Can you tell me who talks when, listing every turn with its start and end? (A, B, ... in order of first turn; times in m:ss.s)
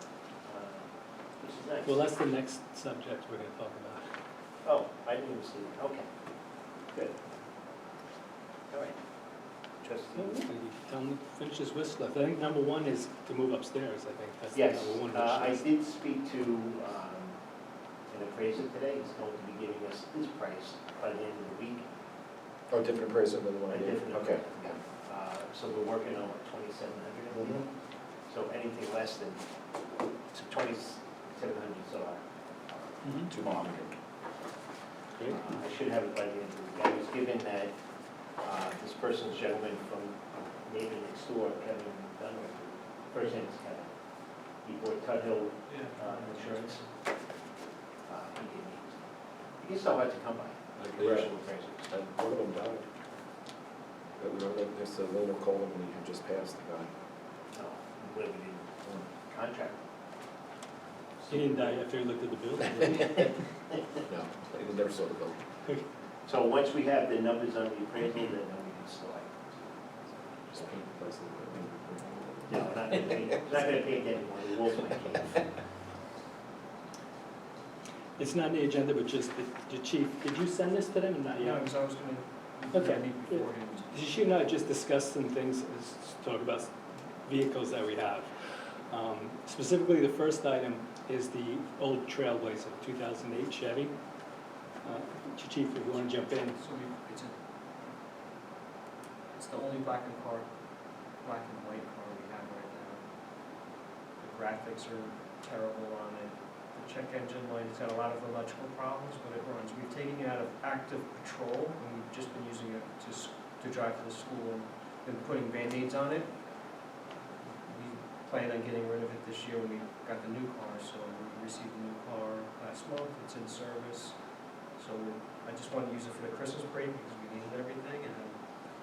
0:00.4-0:00.9 A
0:01.4-0:02.1 A
0:01.8-0:04.1 B
0:04.6-0:06.1 A
0:08.7-0:09.0 A
0:09.8-0:10.4 A
0:10.1-0:15.6 B
0:14.5-0:17.4 A
0:18.1-0:21.9 A
0:22.7-0:24.5 C
0:23.7-0:27.6 A
0:27.3-0:27.6 C
0:28.3-0:29.4 A
0:30.3-0:32.8 A
0:33.0-0:33.3 B
0:33.3-0:33.9 C
0:35.2-0:37.7 A
0:38.4-0:43.9 A
0:44.6-0:46.8 A
0:45.7-0:46.7 D
0:48.1-0:49.0 A
0:49.6-0:52.0 A
0:50.8-0:51.3 C
0:51.9-0:52.8 C
0:54.2-0:56.9 C
0:57.5-0:58.7 A
0:59.3-0:59.8 A
1:01.2-1:01.8 A
1:01.3-1:03.4 B
1:04.0-1:05.4 C
1:06.2-1:10.7 A
1:10.5-1:13.4 C
1:12.5-1:15.5 A
1:18.2-1:21.6 B
1:21.4-1:23.9 D
1:22.7-1:26.7 B
1:27.2-1:28.3 B
1:28.9-1:34.0 B
1:34.8-1:36.6 B
1:35.9-1:37.9 D
1:39.3-1:40.5 D
1:41.2-1:43.0 D
1:44.2-1:56.3 D
1:57.4-2:04.2 D
2:04.8-2:08.4 D